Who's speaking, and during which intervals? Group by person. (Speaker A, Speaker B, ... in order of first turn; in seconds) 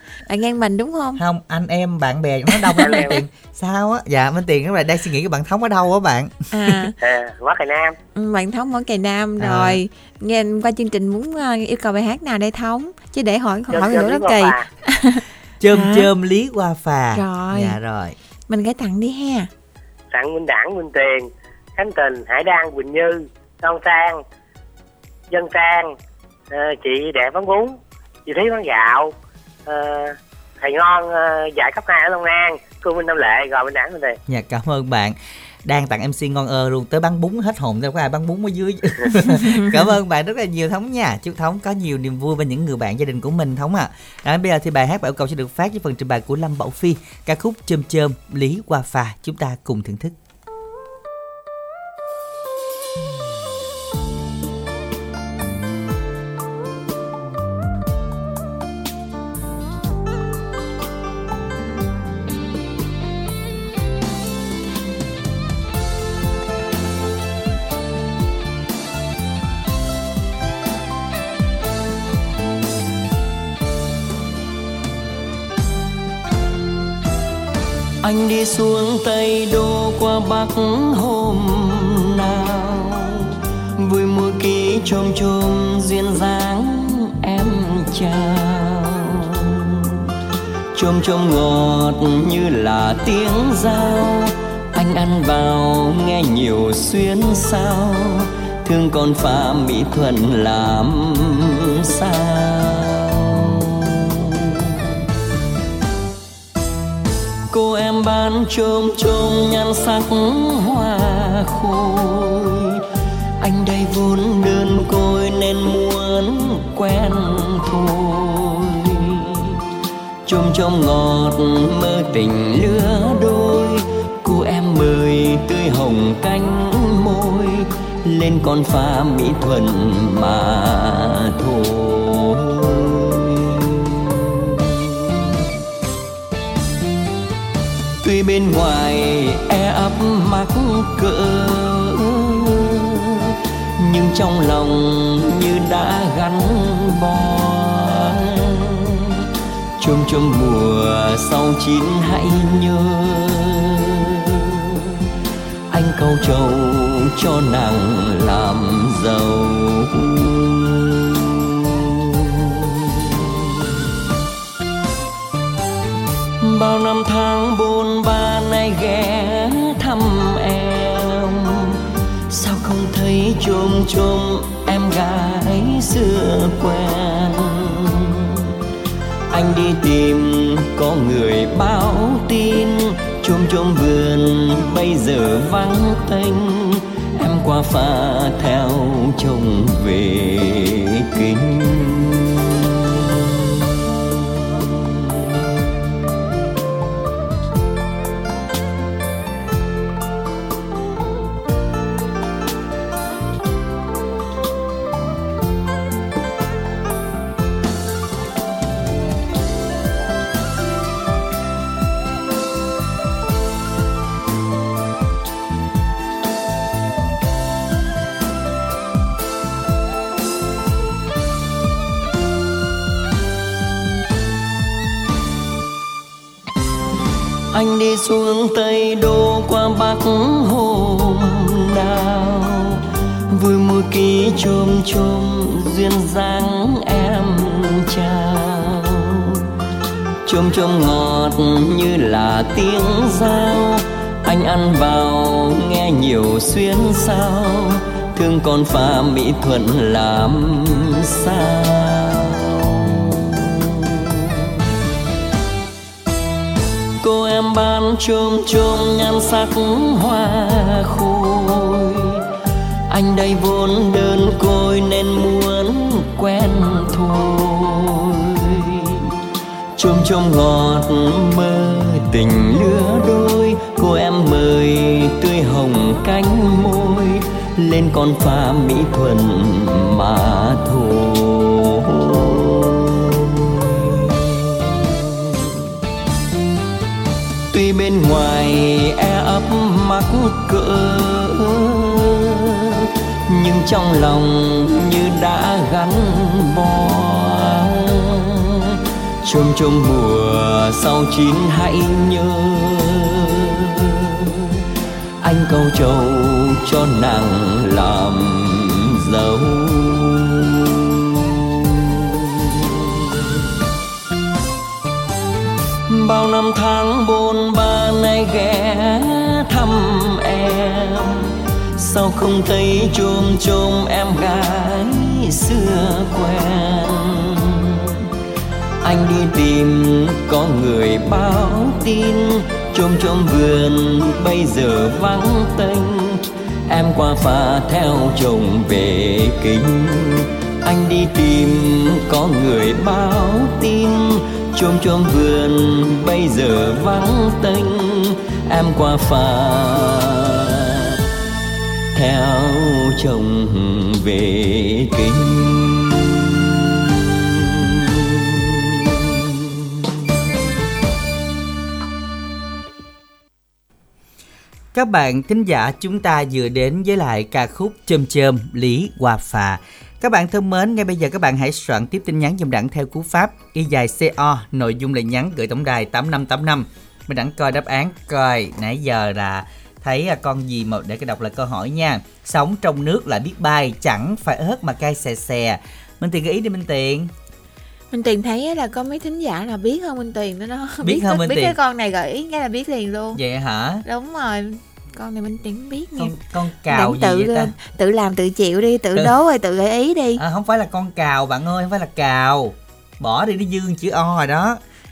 Speaker A: 0.3-1.2, 2.7-3.0, 6.5-6.9, 8.2-16.1, 17.1-17.8, 18.5-19.5, 387.9-393.2, 393.8-396.1, 396.7-400.2
Speaker B: 1.2-6.8, 9.4-9.8, 15.6-18.1, 34.3-50.1, 364.7-387.1, 390.8-391.5, 393.1-393.8, 396.0-397.5, 400.2-404.6
Speaker C: 2.8-3.2, 7.0-8.0, 13.7-14.6, 20.1-24.2, 25.3-25.9, 26.5-27.7, 28.3-29.1, 29.6-34.2
Speaker D: 78.0-83.3, 83.8-89.9, 90.7-104.1, 107.5-112.8, 113.4-119.6, 120.3-133.6, 138.0-143.3, 143.8-148.7, 149.8-154.4, 155.7-160.9, 166.4-171.7, 172.3-178.2, 179.3-192.4, 227.5-232.8, 233.3-239.3, 240.3-252.2, 257.0-261.9, 262.9-268.7, 269.8-281.6, 287.5-292.3, 293.3-297.8, 299.2-303.1, 305.2-310.3, 315.9-321.1, 321.8-327.5, 328.8-350.2, 351.9-356.0